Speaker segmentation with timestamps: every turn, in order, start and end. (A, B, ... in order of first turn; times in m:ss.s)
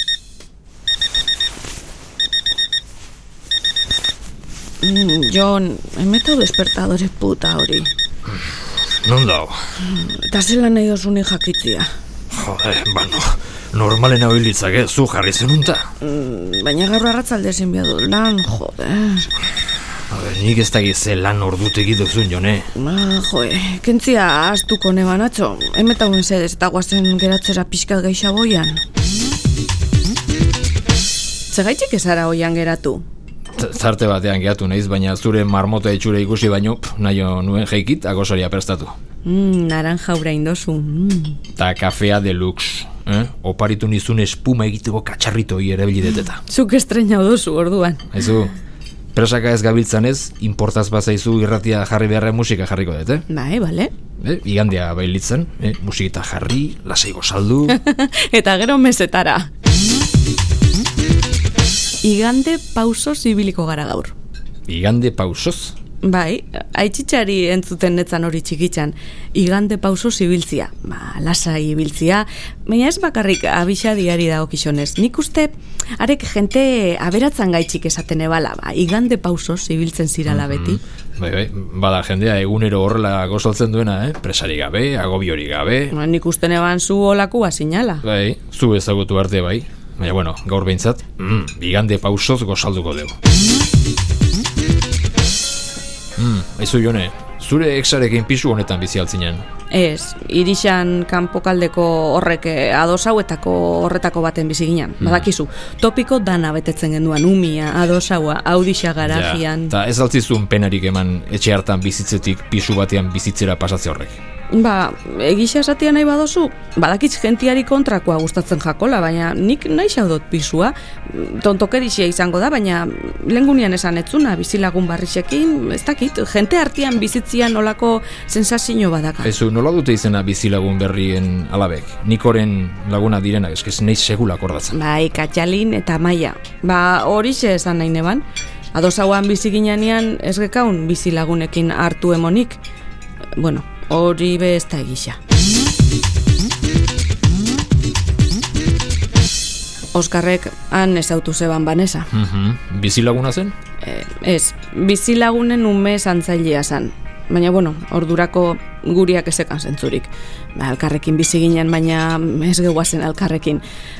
0:04.8-0:07.9 A
0:08.3-0:09.6 B
0:09.8-0:11.9 A
0:12.3-0:15.9 B
0:16.0-0:19.4 A
0:20.1-0:22.7 B
0:22.7-0:28.8 A
0:31.5-0:33.0 A
0:33.6-0:38.9 B
0:39.2-0:41.4 A
0:41.6-0:46.4 B
0:46.4-0:48.1 A
0:48.1-0:48.5 B
0:49.1-0:53.2 B
0:53.3-0:53.9 A
0:54.2-0:57.8 B
0:57.7-0:59.5 A
1:02.0-1:04.1 A
1:04.7-1:05.7 B
1:06.0-1:20.8 A
1:20.3-1:25.9 B
1:25.9-1:28.0 A
1:28.0-1:33.2 B
1:36.2-1:39.4 B
1:39.7-1:49.7 A
1:45.0-1:45.3 B
1:49.0-1:54.2 B
1:54.5-2:09.3 A
2:09.2-2:14.8 B
2:14.7-2:18.2 A
2:18.7-2:22.6 A
2:23.4-2:25.2 A
2:29.9-2:32.1 A
2:32.1-2:33.5 B
2:33.8-2:43.6 A